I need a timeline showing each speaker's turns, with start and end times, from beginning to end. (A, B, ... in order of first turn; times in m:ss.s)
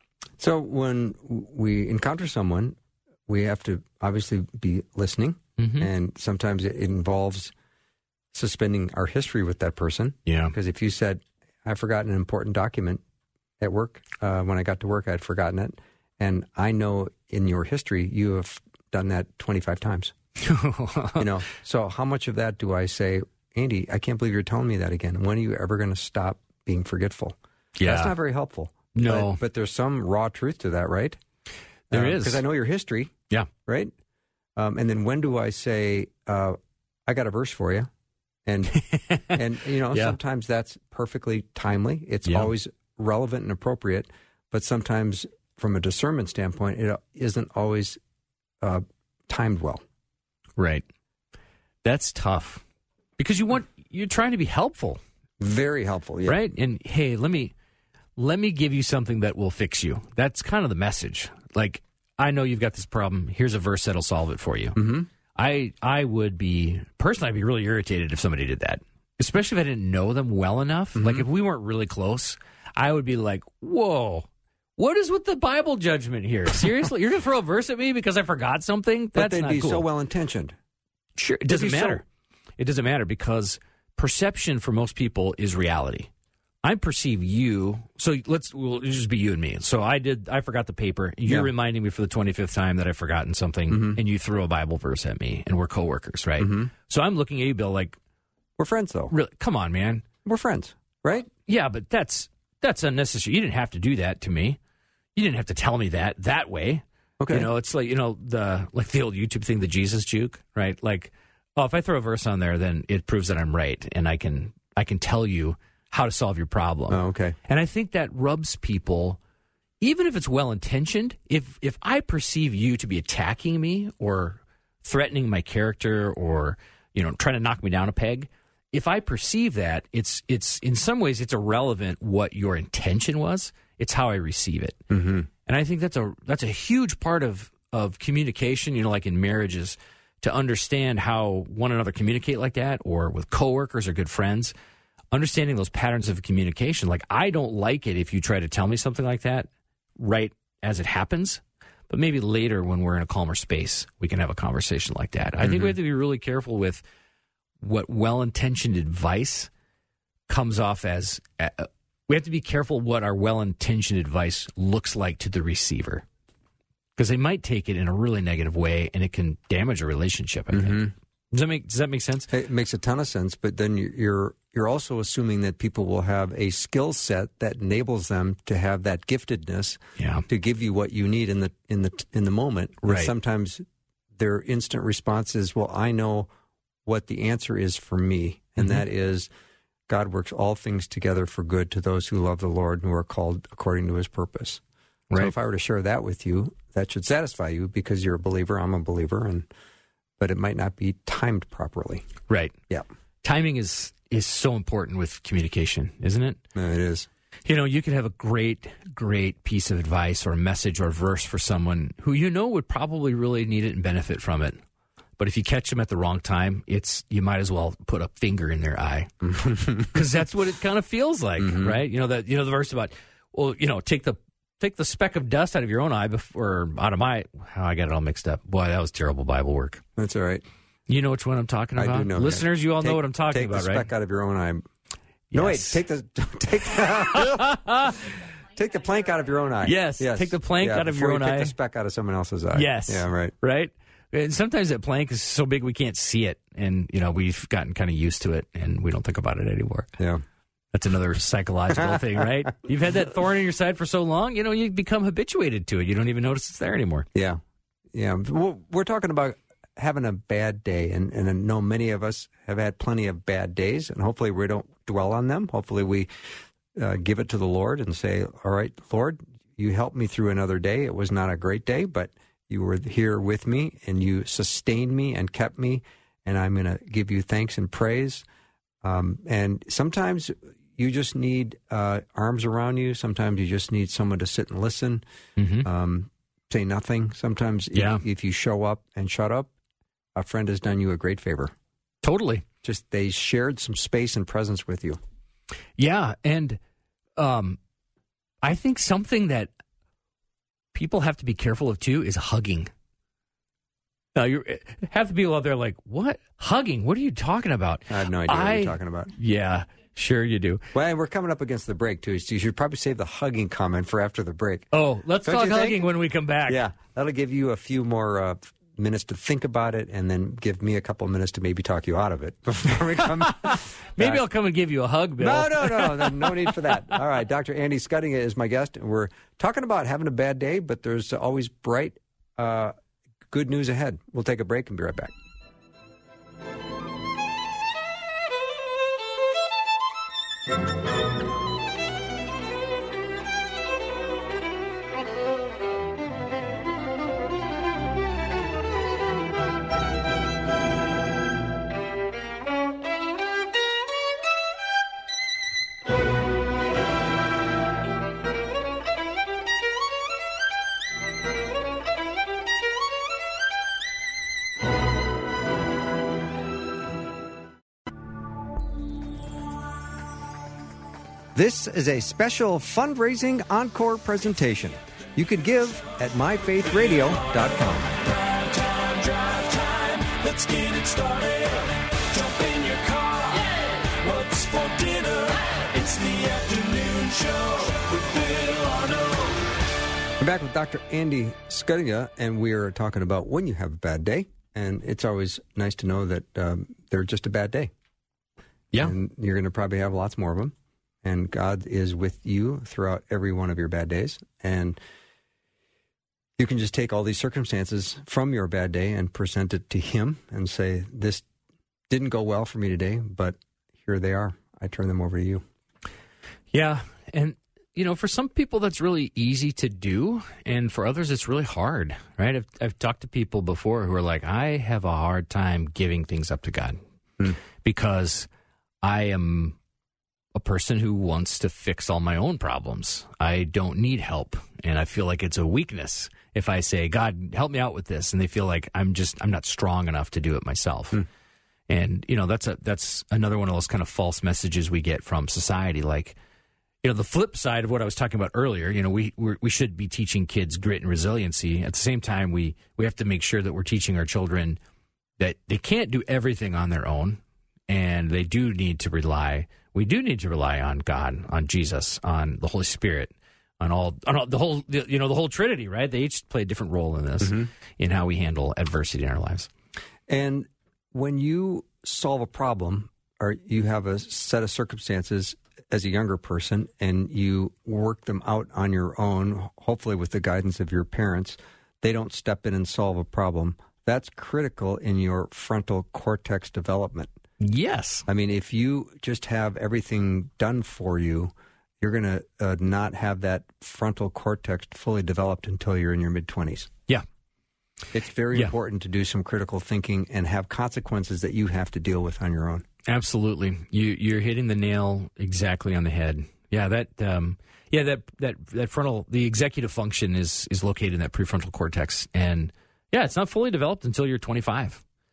0:00.4-0:07.5 A
0:05.6-0:05.9 B
0:08.3-0:13.0 A
0:10.3-0:10.6 B
0:13.6-0:20.1 A
0:20.4-0:21.3 B
0:21.2-0:31.2 A
0:27.8-0:28.2 B
0:28.9-0:29.4 B
0:31.9-0:33.1 A
0:31.9-0:32.4 B
0:33.7-0:33.9 A
0:34.6-0:37.9 A
0:38.4-0:48.0 A
0:38.9-0:39.4 B
0:42.3-0:42.5 B
0:48.6-0:49.8 A
0:50.6-0:50.8 B
0:51.8-0:52.6 B
0:53.2-0:55.0 B
0:55.4-0:56.4 A
0:56.2-0:57.5 B
0:58.2-1:04.8 B
1:04.8-1:05.1 A
1:05.4-1:19.9 B
1:11.0-1:11.2 A
1:19.2-1:20.6 A
1:21.2-1:22.0 B
1:21.5-1:22.0 A
1:22.6-1:26.1 B
1:26.6-1:38.0 B
1:33.7-1:34.0 A
1:36.4-1:36.7 A
1:38.6-1:39.1 A
1:39.1-1:40.1 B
1:40.2-1:41.3 A
1:41.5-1:44.6 B
1:45.2-1:59.2 B
1:47.2-1:47.5 A
1:56.9-1:57.4 A
1:59.8-2:14.8 B
2:14.9-2:15.3 A
2:15.5-2:24.5 B
2:25.1-2:36.8 B
2:35.4-2:35.7 A
2:37.6-2:39.5 B
2:40.3-2:46.1 B
2:47.0-2:52.3 B
2:50.5-2:50.9 A
2:52.3-3:03.6 A
3:00.0-3:00.3 B
3:02.8-3:03.1 B
3:04.2-3:06.3 A
3:06.9-3:09.3 A
3:09.9-3:14.6 A
3:15.2-3:19.5 A
3:20.2-3:22.1 A
3:22.3-3:22.6 B
3:23.2-3:26.4 B
3:26.6-3:27.1 A
3:27.5-3:34.6 B
3:35.2-3:49.8 B
3:39.4-3:39.9 A
3:41.4-3:41.8 A
3:50.0-3:50.4 A
3:50.9-3:53.9 B
3:51.8-3:54.6 A
3:55.3-3:55.8 B
3:55.3-3:57.6 A
3:57.1-3:58.0 B
3:58.5-4:03.3 A
3:59.6-4:01.6 B
4:02.5-4:09.9 B
4:10.7-4:17.1 B
4:17.1-4:17.4 A
4:17.9-4:26.1 A
4:26.8-4:38.2 A
4:38.8-4:45.0 A
4:45.4-4:45.7 B
4:45.6-4:49.5 A
4:47.7-4:48.0 B
4:50.2-4:51.5 A
4:52.0-4:52.5 B
4:52.6-4:55.0 A
4:55.8-4:56.6 B
4:57.2-4:57.6 B
4:58.4-4:59.5 B
5:00.7-5:02.7 B
5:04.2-5:10.6 B
5:07.9-5:09.1 A
5:10.7-5:14.7 A
5:14.7-5:16.6 B
5:15.2-5:15.9 A
5:16.5-5:24.2 A
5:23.2-5:26.5 B
5:25.2-5:32.7 A
5:33.3-5:35.1 A
6:11.3-6:18.0 A
6:20.9-6:21.5 C
6:22.4-6:22.7 C
6:24.4-6:25.4 C
6:26.0-6:26.3 C
6:30.2-6:37.7 A
6:38.8-6:44.8 A
6:46.4-6:51.3 A
6:51.9-6:55.4 A
6:56.5-7:06.8 B
7:07.6-7:08.3 B
7:08.8-7:09.6 B
7:10.4-7:21.1 B
7:21.7-7:26.2 B
7:26.8-7:34.6 B
7:35.2-7:49.5 B
7:47.2-7:47.5 A
7:50.1-8:07.1 A
8:07.4-8:08.1 B
8:08.1-8:16.7 A
8:17.9-8:22.6 A
8:22.9-8:34.8 B